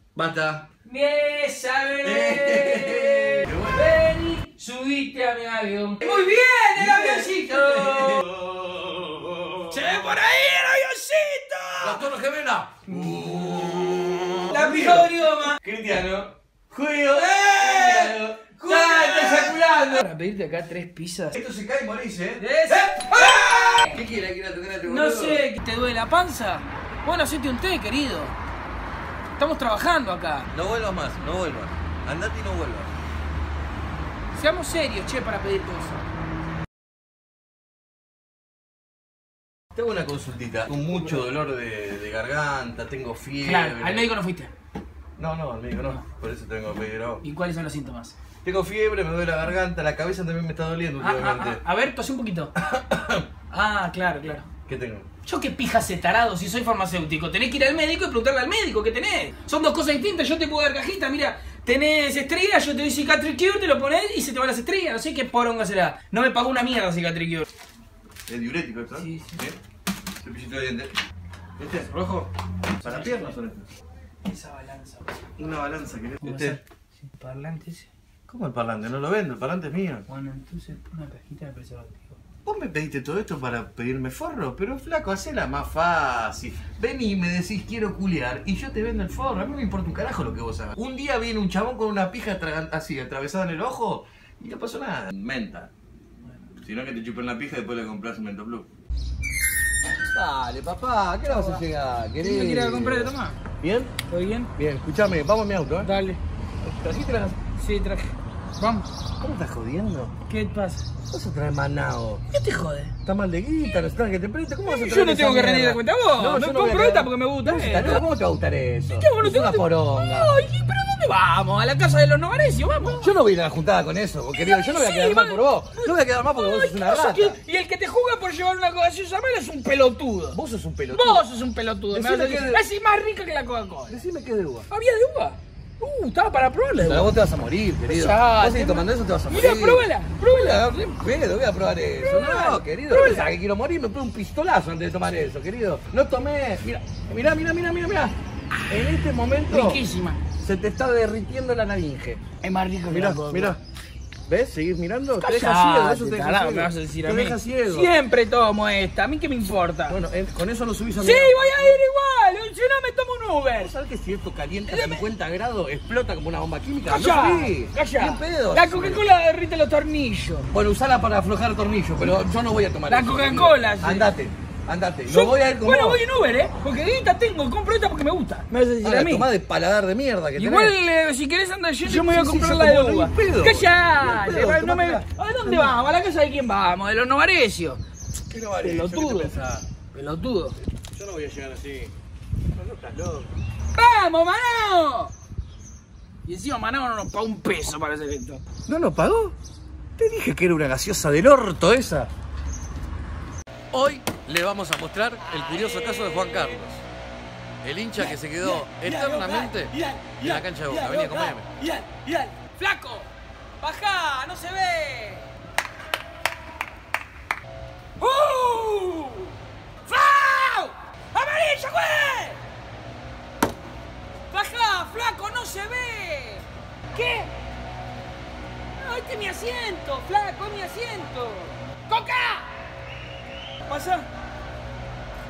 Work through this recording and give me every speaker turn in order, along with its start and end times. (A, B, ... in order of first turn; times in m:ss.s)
0:00.2-0:00.7 A
0:00.8-0:08.3 B
0:02.0-0:04.0 A
0:06.0-0:09.9 A
0:09.7-0:12.1 B
0:11.8-0:20.0 A
0:12.9-0:13.8 B
0:14.5-0:15.6 B
0:17.1-0:21.4 B
0:21.3-0:25.4 A
0:22.4-0:24.0 B
0:24.8-0:28.4 B
0:29.4-0:30.5 B
0:30.5-0:32.9 A
0:34.4-0:36.0 B
0:39.7-0:44.1 A
0:43.4-0:44.5 B
0:45.2-0:47.2 A
0:47.2-0:48.2 B
0:48.4-0:51.6 A
0:51.0-0:52.5 B
0:52.6-0:53.3 A
0:53.5-0:54.5 B
0:54.7-0:55.1 A
0:55.2-1:07.5 B
1:08.3-1:09.6 A
1:09.0-1:09.4 B
1:10.2-1:11.0 A
1:11.6-1:13.7 A
1:12.8-1:13.4 B
1:14.2-1:15.5 B
1:15.4-1:16.6 A
1:16.2-1:17.9 B
1:18.3-1:20.0 A
1:20.1-1:22.2 B
1:22.4-1:35.7 A
1:36.6-1:38.7 A
1:39.9-1:43.9 A
1:42.2-1:43.4 B
1:44.1-1:44.5 B
1:44.6-1:45.9 A
1:45.8-1:46.2 B
1:46.6-1:47.4 A
1:47.6-1:48.9 B
1:49.2-1:50.2 A
1:50.3-1:50.9 B
1:51.1-1:52.2 A
1:52.3-1:53.0 B
1:53.0-2:00.4 A
1:54.6-1:58.0 B
1:59.0-2:03.1 B
2:03.0-2:07.4 A
2:04.3-2:10.4 B
2:10.3-2:11.2 A
2:10.9-2:14.0 B
2:11.9-2:12.6 A
2:13.9-2:14.7 A
2:14.7-2:17.1 B
2:16.8-2:28.2 A
2:17.9-2:21.0 B
2:22.0-2:23.3 B
2:28.7-2:29.8 A
2:29.5-2:30.2 B
2:30.4-2:32.2 A
2:32.4-2:33.6 B
2:32.9-2:33.6 A
2:34.3-2:37.9 A
2:35.2-2:40.0 B
2:39.9-2:41.9 A
2:41.0-2:43.7 B
2:43.6-2:49.1 A
2:44.7-2:45.0 B
2:46.9-2:50.5 B
2:50.5-2:56.0 A
2:52.9-2:54.1 B
2:55.1-2:59.3 B
2:58.8-3:00.8 A
3:00.4-3:07.8 B
3:01.8-3:05.8 A
3:08.3-3:09.7 A
3:08.6-3:09.3 B
3:09.9-3:10.6 B
3:10.8-3:11.9 A
3:12.6-3:13.3 A
3:13.8-3:15.1 B
3:16.3-3:18.4 B
3:18.7-3:19.4 A
3:20.0-3:22.1 A
3:23.7-3:26.8 A
3:25.2-3:26.6 B
3:27.6-3:31.5 A
3:28.0-3:35.3 B
3:38.0-3:39.3 B
3:39.9-3:42.4 B
3:44.3-3:47.3 B
3:48.8-3:52.5 B
3:53.7-3:54.1 B